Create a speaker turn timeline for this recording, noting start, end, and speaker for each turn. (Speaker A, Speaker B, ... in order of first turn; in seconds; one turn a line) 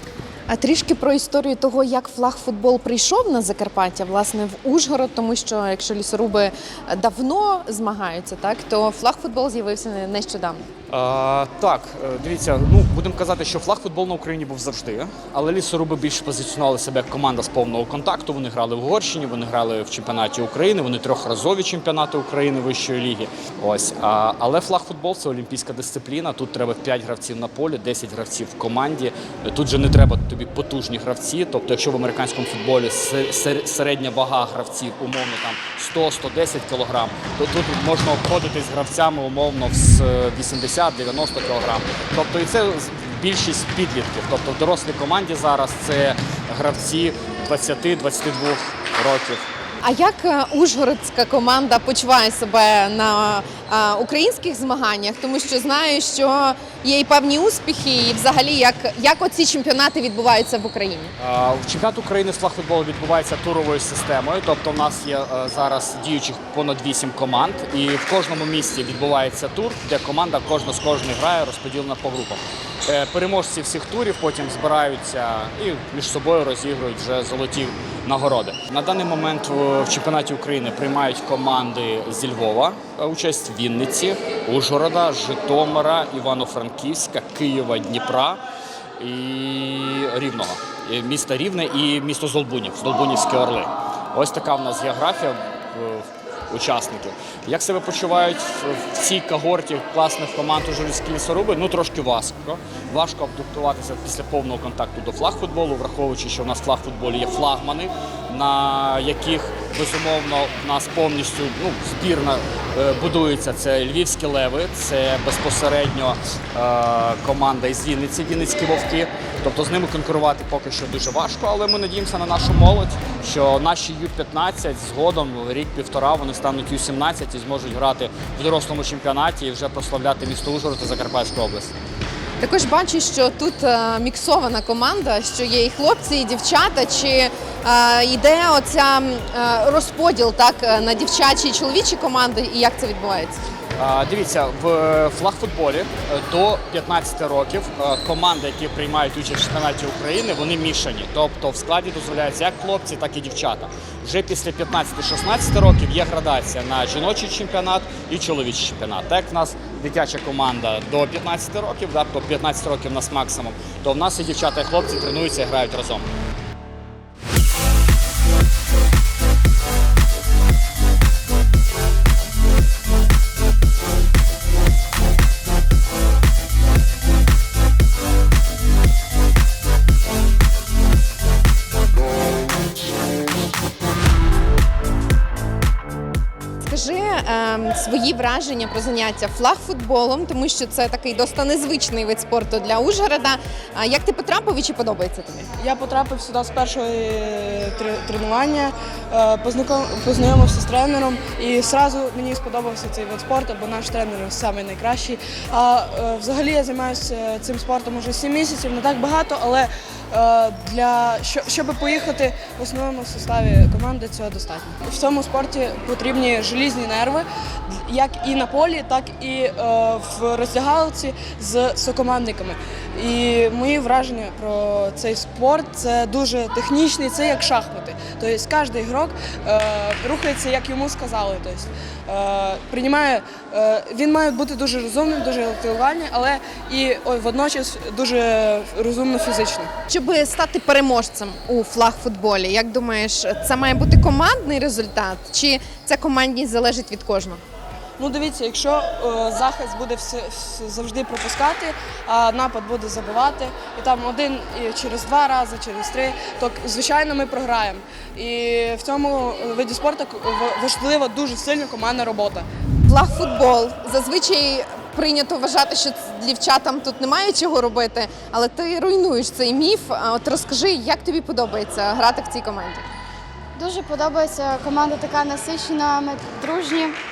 Speaker A: 0.5-10.7
Speaker B: 10.9-49.4
Speaker A: 49.8-61.1
Speaker B: 61.2-88.4
Speaker B: 89.0-131.7
Speaker A: 132.4-143.4
Speaker B: 143.8-166.1
Speaker A: 186.6-195.5
Speaker C: 195.6-239.7
Speaker A: 239.9-247.4
Speaker C: 248.0-262.5
Speaker A: 262.9-272.9
Speaker D: 273.6-277.0